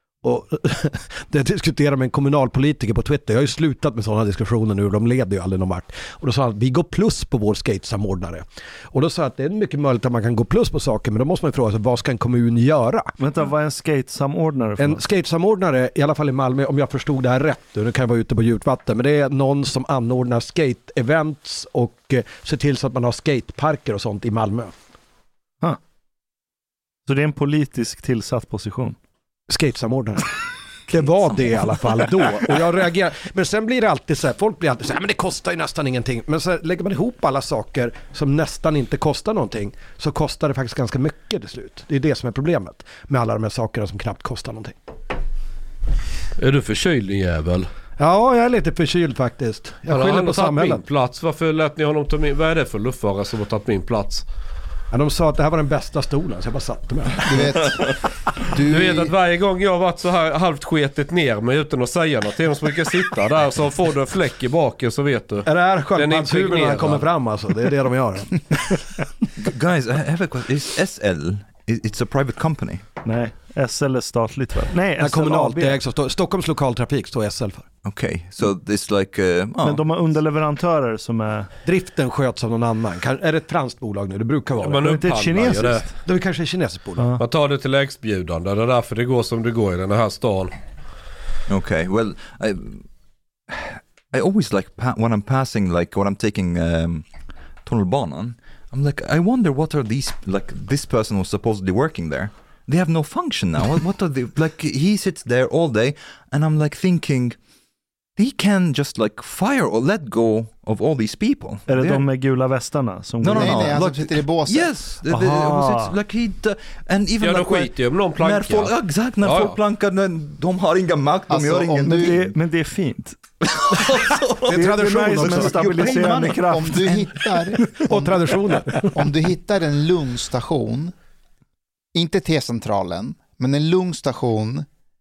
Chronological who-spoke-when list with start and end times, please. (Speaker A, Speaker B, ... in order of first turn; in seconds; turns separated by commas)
Speaker A: 0.2-13.1, Speaker B: 13.2-15.0, Speaker A: 14.8-24.7, Speaker B: 27.0-29.0, Speaker A: 29.5-44.8, Speaker C: 46.4-47.7, Speaker A: 48.0-50.8, Speaker C: 49.9-54.2, Speaker A: 54.9-57.5, Speaker D: 57.2-59.1, Speaker C: 58.6-67.0, Speaker A: 65.4-68.9, Speaker E: 69.3-72.9, Speaker B: 73.0-75.8, Speaker A: 75.0-77.7, Speaker E: 77.8-79.8, Speaker B: 79.6-81.5, Speaker A: 81.6-87.1, Speaker C: 84.6-85.8, Speaker B: 84.8-86.0, Speaker B: 87.0-87.2, Speaker C: 87.2-90.6, Speaker E: 91.5-92.8, Speaker E: 93.5-97.1, Speaker E: 97.6-107.4, Speaker E: 108.2-112.1, Speaker B: 111.7-113.9, Speaker E: 113.2-122.3, Speaker D: 113.3-114.7, Speaker B: 115.1-116.0, Speaker C: 117.2-119.6, Speaker D: 121.3-122.2, Speaker B: 121.8-123.2, Speaker E: 123.5-127.4, Speaker A: 124.4-126.1, Speaker B: 124.5-127.1, Speaker D: 126.0-130.9, Speaker A: 127.7-128.9, Speaker D: 131.9-134.7